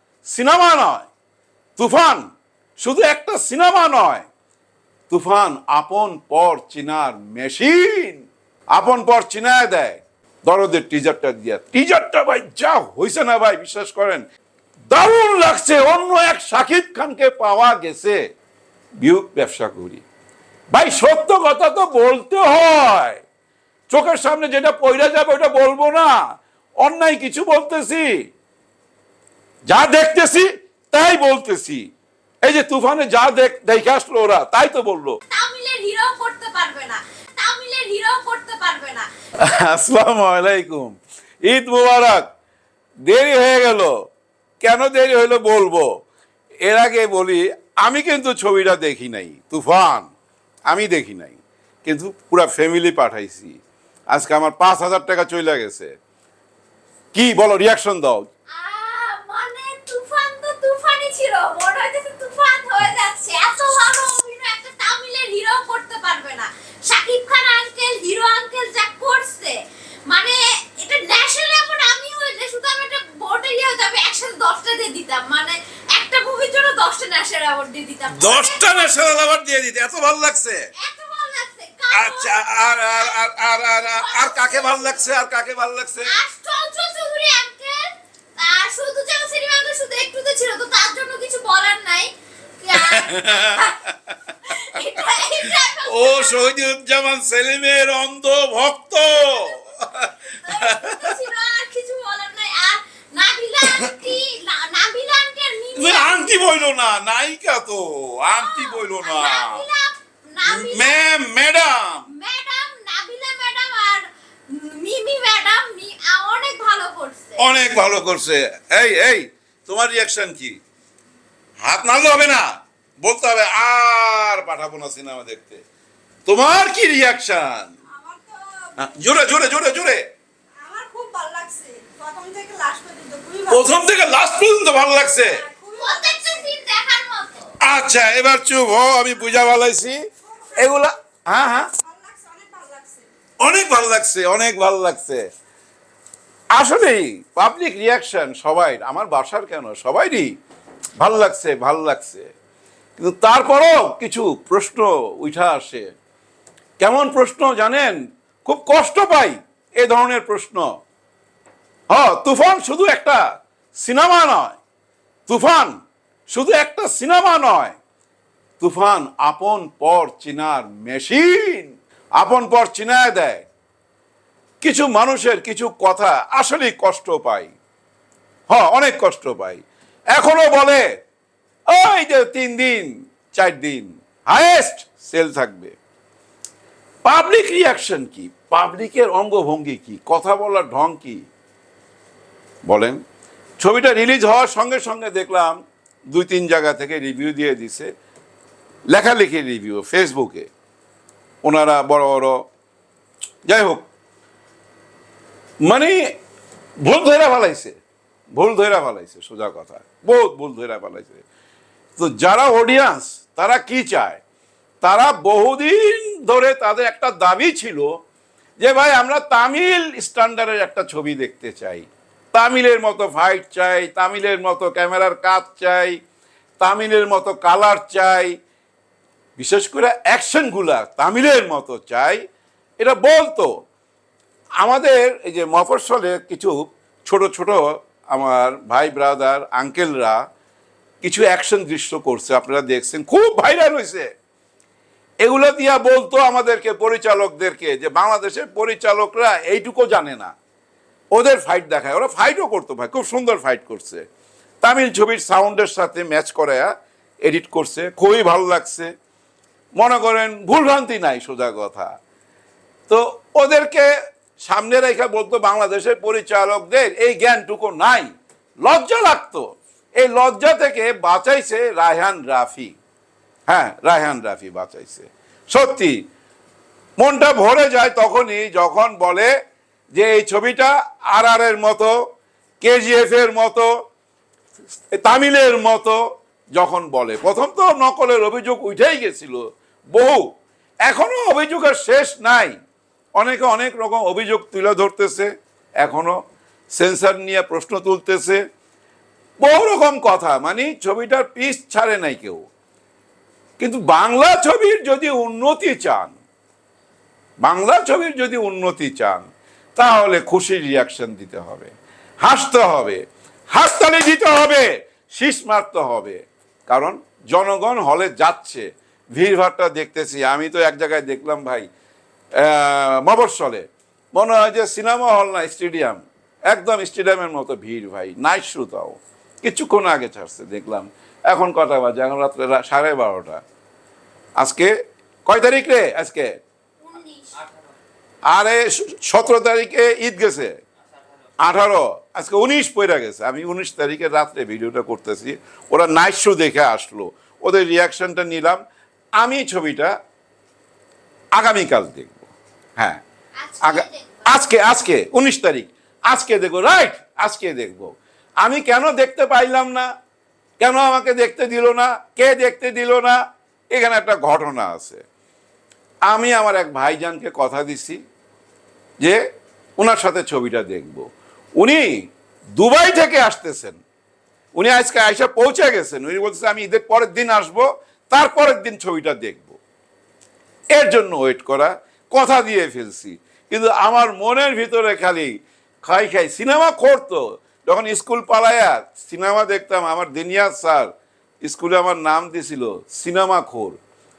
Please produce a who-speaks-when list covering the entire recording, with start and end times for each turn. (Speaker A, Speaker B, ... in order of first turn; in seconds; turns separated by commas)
Speaker A: 0.2-1.1, Speaker A: 1.8-2.2, Speaker A: 2.8-4.3, Speaker A: 5.1-14.2, Speaker A: 14.9-18.2, Speaker A: 19.0-20.0, Speaker A: 20.7-23.2, Speaker A: 23.9-26.2, Speaker A: 26.8-28.1, Speaker A: 29.7-31.9, Speaker A: 32.4-35.2, Speaker B: 35.3-39.1, Speaker A: 39.4-42.2, Speaker A: 43.1-43.9, Speaker A: 44.6-45.9, Speaker A: 46.6-50.1, Speaker A: 50.7-53.6, Speaker A: 54.1-55.9, Speaker A: 57.1-58.3, Speaker B: 58.6-79.2, Speaker A: 78.1-80.7, Speaker B: 80.8-85.2, Speaker A: 81.9-86.1, Speaker B: 86.0-93.8, Speaker A: 92.7-94.1, Speaker B: 94.4-96.5, Speaker A: 95.4-101.1, Speaker B: 100.4-106.4, Speaker A: 105.8-109.6, Speaker B: 108.3-111.0, Speaker A: 110.4-112.1, Speaker B: 112.1-117.5, Speaker A: 117.4-120.6, Speaker A: 121.6-122.5, Speaker A: 123.0-125.6, Speaker A: 126.2-127.8, Speaker C: 127.9-128.7, Speaker A: 128.8-130.0, Speaker C: 130.6-133.8, Speaker A: 133.5-135.4, Speaker C: 135.2-136.4, Speaker B: 135.8-137.5, Speaker A: 137.6-140.0, Speaker A: 140.5-141.7, Speaker C: 141.9-143.1, Speaker A: 143.4-145.2, Speaker A: 146.5-150.3, Speaker A: 151.0-152.3, Speaker A: 153.0-155.9, Speaker A: 156.8-160.7, Speaker A: 161.9-163.2, Speaker A: 163.8-164.6, Speaker A: 165.3-165.7, Speaker A: 166.3-167.8, Speaker A: 168.6-173.4, Speaker A: 174.6-177.5, Speaker A: 178.5-179.6, Speaker A: 180.1-180.8, Speaker A: 181.7-185.7, Speaker A: 187.0-191.2, Speaker A: 192.7-193.0, Speaker A: 193.6-195.6, Speaker A: 196.1-197.9, Speaker A: 198.9-200.5, Speaker A: 201.4-202.4, Speaker A: 203.4-203.8, Speaker A: 205.6-206.1, Speaker A: 206.8-207.8, Speaker A: 208.3-211.2, Speaker A: 211.9-214.2, Speaker A: 214.8-217.9, Speaker A: 218.6-226.0, Speaker A: 226.6-228.3, Speaker A: 229.4-232.2, Speaker A: 232.8-233.5, Speaker A: 234.6-236.5, Speaker A: 237.1-240.2, Speaker A: 241.0-244.1, Speaker A: 245.2-250.3, Speaker A: 251.1-254.0, Speaker A: 254.6-256.7, Speaker A: 257.2-258.9, Speaker A: 259.8-261.9, Speaker A: 262.9-268.1, Speaker A: 268.6-269.4, Speaker A: 270.0-272.8, Speaker A: 273.5-276.0, Speaker A: 277.0-279.3, Speaker A: 279.9-281.9, Speaker A: 282.6-283.7, Speaker A: 284.9-286.0, Speaker A: 286.6-289.4, Speaker A: 289.9-290.2, Speaker A: 290.9-292.5, Speaker A: 293.2-295.3, Speaker A: 295.8-296.1, Speaker A: 296.8-298.4, Speaker A: 299.4-302.4, Speaker A: 303.6-306.1, Speaker A: 307.4-311.7, Speaker A: 312.2-313.0, Speaker A: 313.5-321.7, Speaker A: 322.4-333.4, Speaker A: 334.4-334.7, Speaker A: 335.3-336.3, Speaker B: 336.8-337.4, Speaker A: 338.3-340.6, Speaker A: 341.4-348.6, Speaker A: 349.2-349.9, Speaker A: 351.4-353.0, Speaker B: 353.4-354.4, Speaker A: 353.6-359.9, Speaker A: 360.6-363.2, Speaker A: 363.7-365.0, Speaker A: 366.1-368.0, Speaker A: 369.8-371.0, Speaker A: 371.6-371.9, Speaker A: 372.6-373.8, Speaker A: 374.6-379.6, Speaker A: 380.7-385.3, Speaker A: 385.8-390.9, Speaker A: 391.4-393.8